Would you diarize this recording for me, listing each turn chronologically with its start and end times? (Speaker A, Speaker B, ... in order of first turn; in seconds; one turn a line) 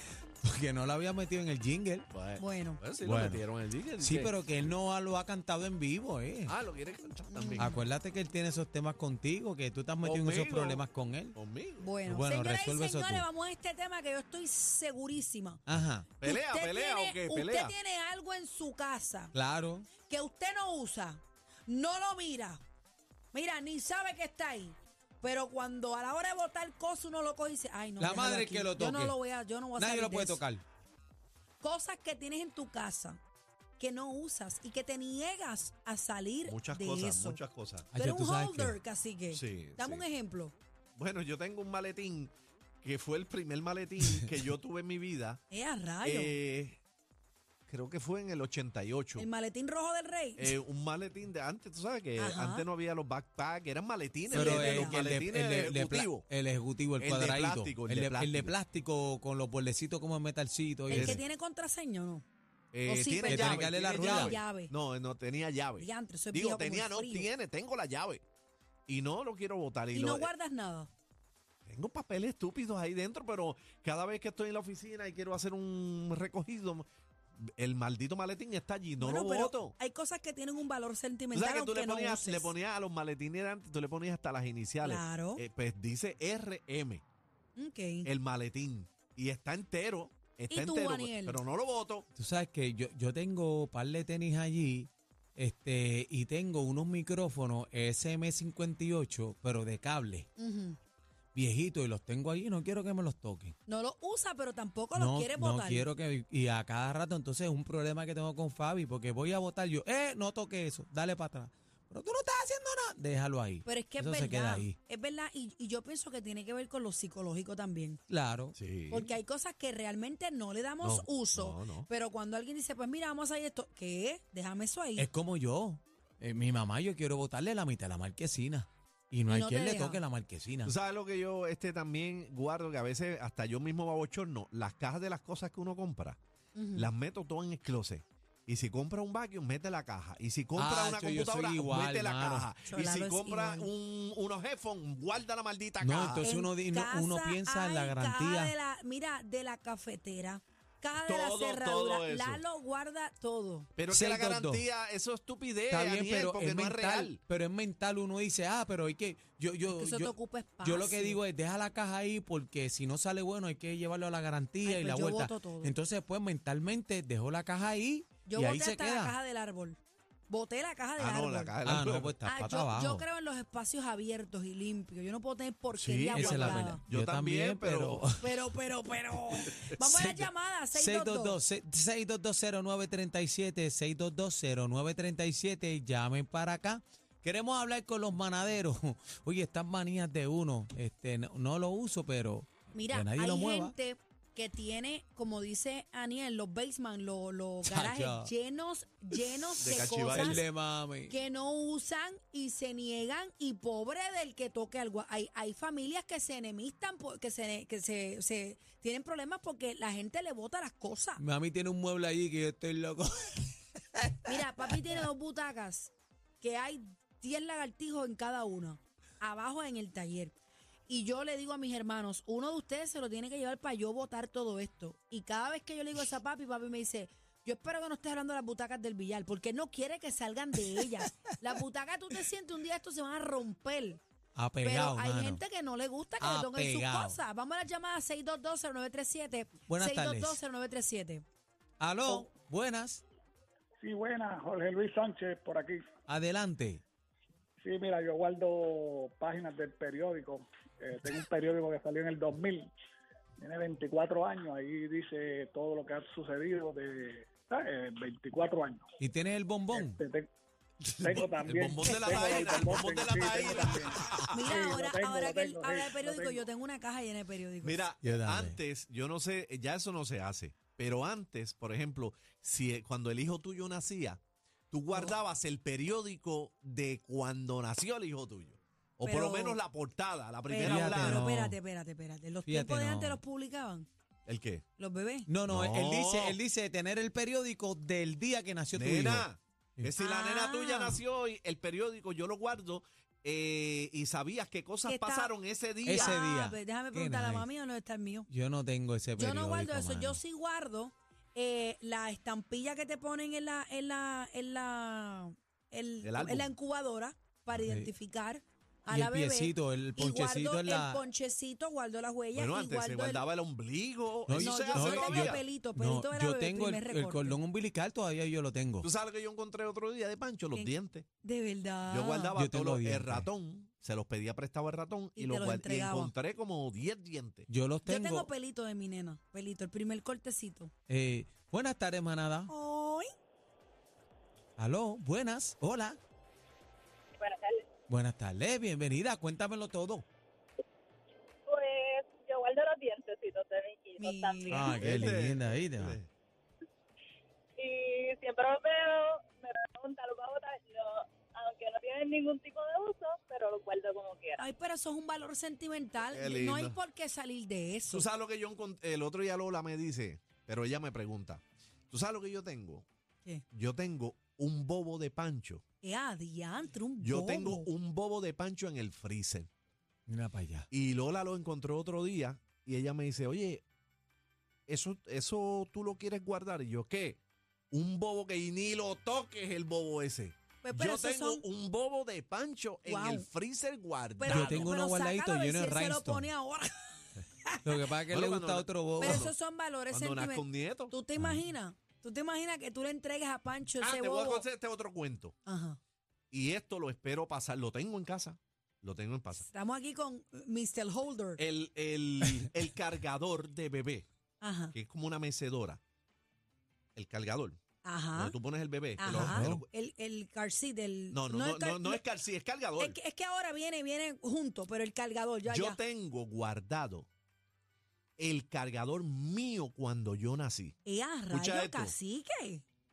Speaker A: 0.4-2.1
Speaker B: 2.1-4.4
Speaker C: 2.4-2.8
Speaker A: 3.0-3.4
Speaker A: 4.0-6.5
Speaker B: 6.5-7.7
Speaker C: 7.3-7.9
Speaker A: 7.6-11.4
Speaker B: 10.0-10.8
Speaker B: 11.3-11.9
Speaker C: 11.8-15.6
Speaker A: 12.1-13.2
Speaker A: 15.7-16.2
Speaker B: 16.2-17.8
Speaker C: 16.2-19.3
Speaker A: 19.3-19.9
Speaker C: 20.0-22.6
Speaker C: 23.3-30.4
Speaker A: 28.0-29.1
Speaker A: 29.8-30.6
Speaker C: 31.6-33.2
Speaker C: 33.8-37.4
Speaker B: 36.5-37.9
Speaker A: 37.9-38.8
Speaker C: 38.0-40.5
Speaker B: 39.3-40.0
Speaker B: 41.0-45.4
Speaker C: 45.5-46.4
Speaker B: 46.0-46.8
Speaker B: 47.7-49.3
Speaker C: 49.2-50.5
Speaker B: 50.4-56.3
Speaker C: 52.2-52.7
Speaker C: 54.3-55.0
Speaker A: 54.3-61.2
Speaker B: 57.0-58.5
Speaker C: 60.9-62.2
Speaker B: 60.9-61.2
Speaker B: 62.7-68.2
Speaker C: 62.9-64.7
Speaker A: 63.2-64.4
Speaker C: 65.8-67.3
Speaker B: 68.9-70.3
Speaker C: 69.9-70.9
Speaker B: 71.7-76.9
Speaker B: 77.4-79.8
Speaker C: 79.0-82.5
Speaker B: 81.3-87.0
Speaker C: 84.8-85.4
Speaker C: 87.6-88.1
Speaker B: 88.0-92.0
Speaker C: 90.5-91.4
Speaker A: 92.2-100.3
Speaker C: 100.4-100.8
Speaker A: 101.3-103.5
Speaker C: 103.7-105.9
Speaker A: 104.9-114.8
Speaker C: 113.7-118.0
Speaker A: 118.1-118.5
Speaker B: 118.6-119.1
Speaker C: 118.9-125.1
Speaker B: 120.8-121.9
Speaker A: 125.0-130.7
Speaker C: 129.3-130.0
Speaker B: 130.7-136.2
Speaker C: 136.6-136.9
Speaker B: 136.8-146.2
Speaker A: 140.6-142.5
Speaker C: 142.7-143.7
Speaker A: 145.8-148.5
Speaker C: 146.2-153.7
Speaker B: 151.0-152.4
Speaker B: 153.8-157.2
Speaker A: 153.9-154.6
Speaker A: 155.7-169.2
Speaker C: 159.7-161.2
Speaker C: 164.6-165.8
Speaker C: 168.3-169.8
Speaker C: 170.3-171.6
Speaker B: 171.0-172.2
Speaker A: 171.6-173.0
Speaker C: 172.2-176.8
Speaker B: 175.7-178.1
Speaker A: 176.1-178.2
Speaker C: 178.2-181.4
Speaker A: 179.7-193.7
Speaker C: 192.7-200.4
Speaker A: 197.7-198.3
Speaker B: 199.6-200.4
Speaker A: 200.0-201.1
Speaker C: 201.1-211.2
Speaker A: 211.2-215.0
Speaker C: 214.3-220.3
Speaker C: 220.9-234.0
Speaker A: 231.0-231.3
Speaker A: 234.4-235.4
Speaker C: 234.6-241.2
Speaker A: 236.2-237.2
Speaker A: 239.7-240.4
Speaker A: 241.8-243.0
Speaker D: 243.8-245.8
Speaker A: 246.1-246.8
Speaker D: 247.6-252.7
Speaker D: 253.4-258.8
Speaker A: 259.0-260.0
Speaker D: 259.7-260.3
Speaker A: 260.9-261.2
Speaker D: 261.0-266.4
Speaker B: 261.5-264.6
Speaker C: 261.8-262.8
Speaker C: 263.3-263.7
Speaker C: 264.3-267.8
Speaker B: 267.6-281.2
Speaker A: 268.0-268.6
Speaker C: 279.0-279.6
Speaker C: 280.5-283.9
Speaker A: 280.6-281.6
Speaker A: 282.5-283.2
Speaker B: 284.3-284.6
Speaker C: 284.8-285.3
Speaker A: 285.3-289.3
Speaker B: 285.5-286.4
Speaker B: 288.7-296.2
Speaker C: 290.0-291.0
Speaker C: 294.9-295.3
Speaker A: 295.8-297.5
Speaker C: 295.9-298.3
Speaker A: 298.3-300.2
Speaker C: 299.2-313.2
Speaker B: 306.0-306.5
Speaker A: 307.5-307.9
Speaker A: 308.9-311.0
Speaker B: 312.3-315.4
Speaker A: 314.3-318.9
Speaker C: 314.3-317.4
Speaker B: 318.8-321.1
Speaker C: 320.5-322.4
Speaker B: 321.9-327.5
Speaker A: 322.4-323.3
Speaker C: 325.2-326.1
Speaker A: 327.5-328.3
Speaker C: 327.9-330.7
Speaker A: 330.9-332.5
Speaker C: 332.5-333.1
Speaker A: 334.6-336.0
Speaker E: 337.2-337.7
Speaker A: 337.9-340.1
Speaker E: 341.5-345.1
Speaker C: 344.0-345.1
Speaker A: 344.5-346.0
Speaker B: 344.8-346.1
Speaker E: 347.6-354.4
Speaker C: 354.4-358.1
Speaker B: 356.1-356.8
Speaker B: 357.9-362.9
Speaker B: 363.5-365.6
Speaker C: 365.8-367.7
Speaker B: 367.0-369.5
Speaker A: 370.1-370.7
Speaker B: 370.7-373.6
Speaker B: 374.7-377.2
Speaker B: 377.7-384.7
Speaker C: 380.6-381.4
Speaker C: 382.9-383.3
Speaker C: 384.2-387.7
Speaker A: 384.2-386.3
Speaker A: 387.6-389.3
Speaker B: 388.1-389.3
Speaker C: 389.0-394.5
Speaker B: 389.9-390.9
Speaker B: 393.8-395.4
Speaker C: 395.5-395.8
Speaker B: 396.3-399.4
Speaker C: 399.4-401.4
Speaker B: 401.4-404.1
Speaker C: 404.4-404.8
Speaker B: 404.7-405.8
Speaker B: 407.0-407.6
Speaker C: 407.8-408.4
Speaker B: 408.1-409.6
Speaker C: 409.0-412.0
Speaker A: 409.1-409.6
Speaker B: 411.1-413.0
Speaker C: 412.8-415.8
Speaker B: 415.5-417.1
Speaker B: 418.2-420.8
Speaker C: 420.9-422.6
Speaker B: 421.3-421.9